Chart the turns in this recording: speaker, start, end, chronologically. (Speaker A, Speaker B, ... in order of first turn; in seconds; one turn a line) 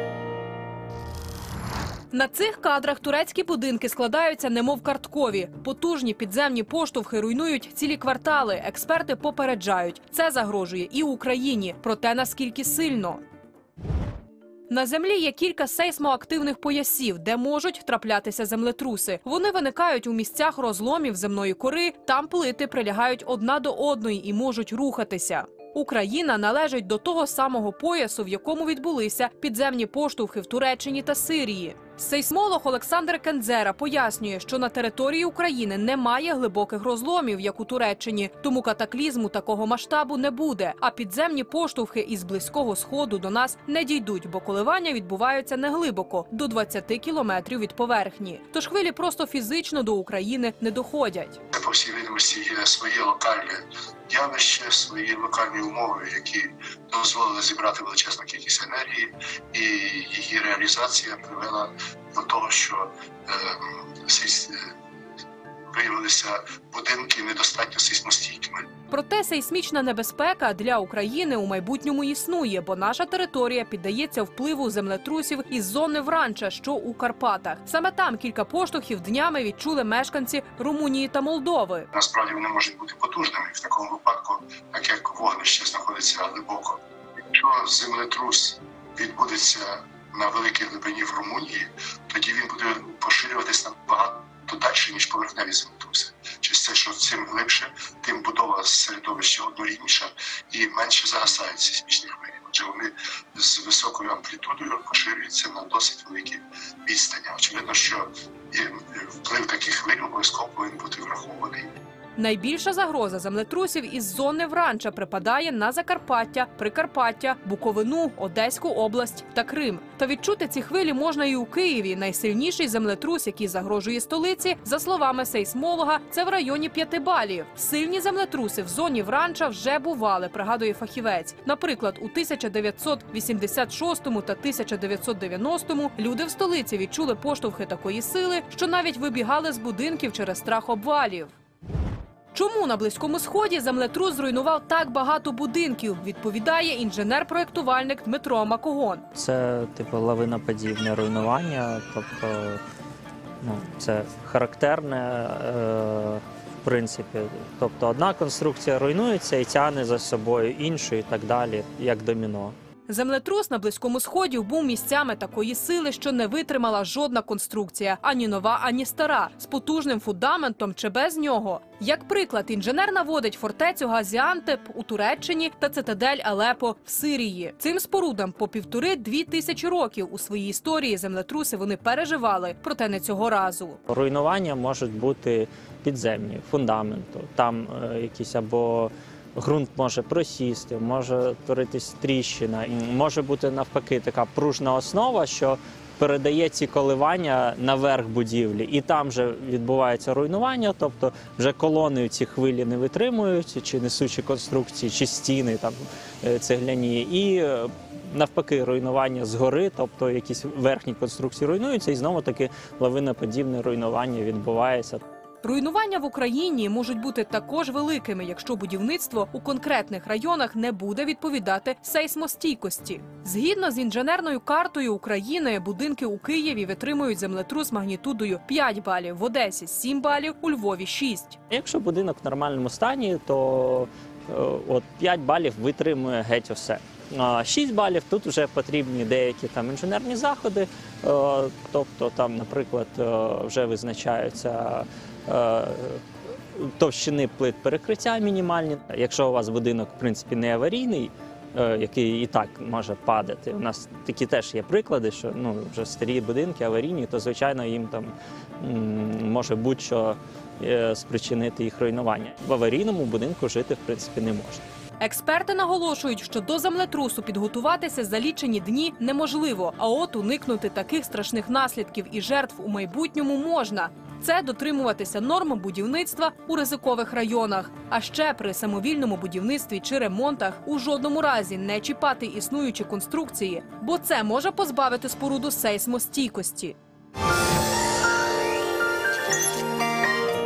Speaker A: 2.1-13.2
Speaker A: 14.7-51.4
Speaker B: 51.5-64.7
Speaker B: 65.7-68.7
Speaker A: 68.9-81.9
Speaker B: 81.9-111.7
Speaker A: 112.2-141.3
Speaker A: 142.3-149.0
Speaker C: 149.2-152.6
Speaker C: 153.4-162.6
Speaker A: 162.9-183.8
Speaker C: 183.9-215.0
Speaker A: 215.4-231.4
Speaker C: 231.5-246.0
Speaker C: 246.5-264.6
Speaker A: 265.0-286.8